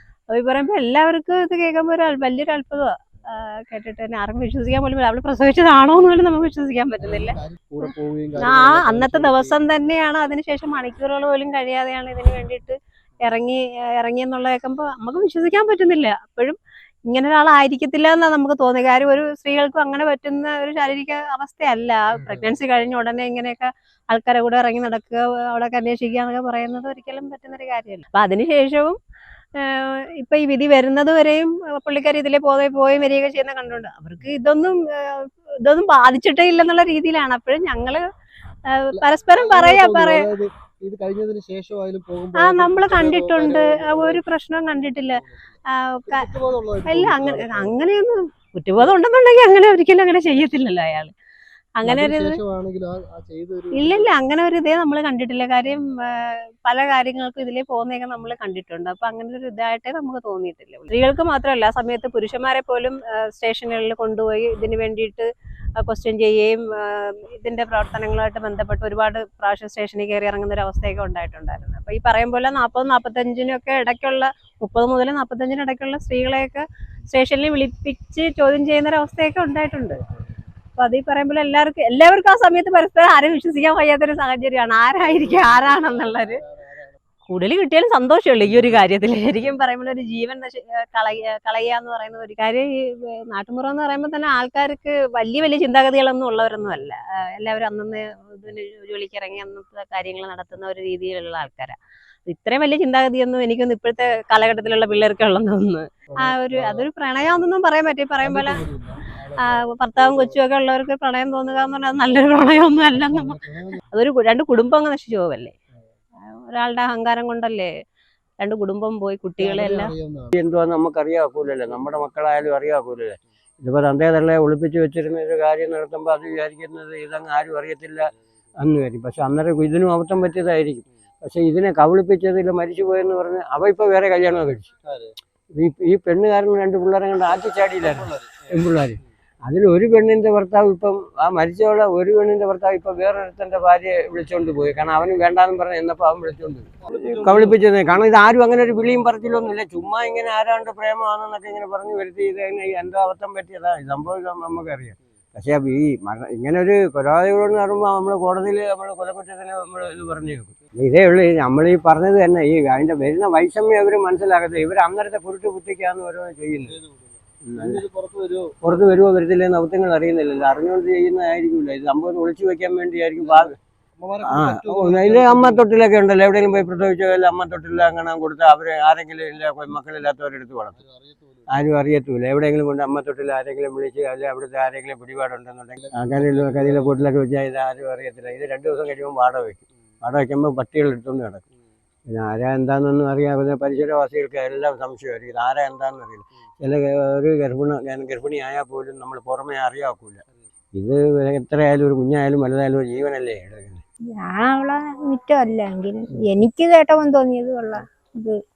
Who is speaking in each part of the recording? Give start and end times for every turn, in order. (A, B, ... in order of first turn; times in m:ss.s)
0:00.3-0:07.3 A
0:07.0-0:09.6 B
0:08.4-0:29.0 A
0:22.2-0:22.4 B
0:29.6-0:38.0 A
0:38.7-0:40.3 A
0:38.9-0:45.5 B
0:42.4-0:45.2 A
0:45.8-0:46.2 A
0:46.1-0:47.8 B
0:46.9-0:51.1 A
0:51.8-0:52.4 A
0:51.8-0:54.1 B
0:53.8-1:05.2 A
1:05.8-1:20.0 A
1:20.8-1:26.4 A
1:24.9-1:27.0 B
1:27.3-1:41.8 A
1:42.3-1:48.6 A
1:46.1-1:46.9 B
1:48.2-1:50.4 B
1:49.4-1:53.4 A
1:52.9-1:53.8 B
1:53.9-1:55.5 A
1:56.3-1:57.7 A
1:58.4-1:59.9 A
1:59.4-2:00.3 B
2:00.3-2:14.7 C
2:14.8-2:15.1 B
2:15.5-2:46.8 C
2:17.3-2:18.7 B
2:26.8-2:27.5 B
2:46.6-2:48.5 B
2:47.4-2:47.8 C
2:48.6-2:53.6 C
2:53.2-2:55.7 B
2:54.2-3:00.8 C
3:00.7-3:01.6 B
3:01.5-3:11.4 C
3:05.8-3:07.0 B
3:12.1-3:20.2 C
3:20.7-3:23.8 C
3:24.1-3:28.4 D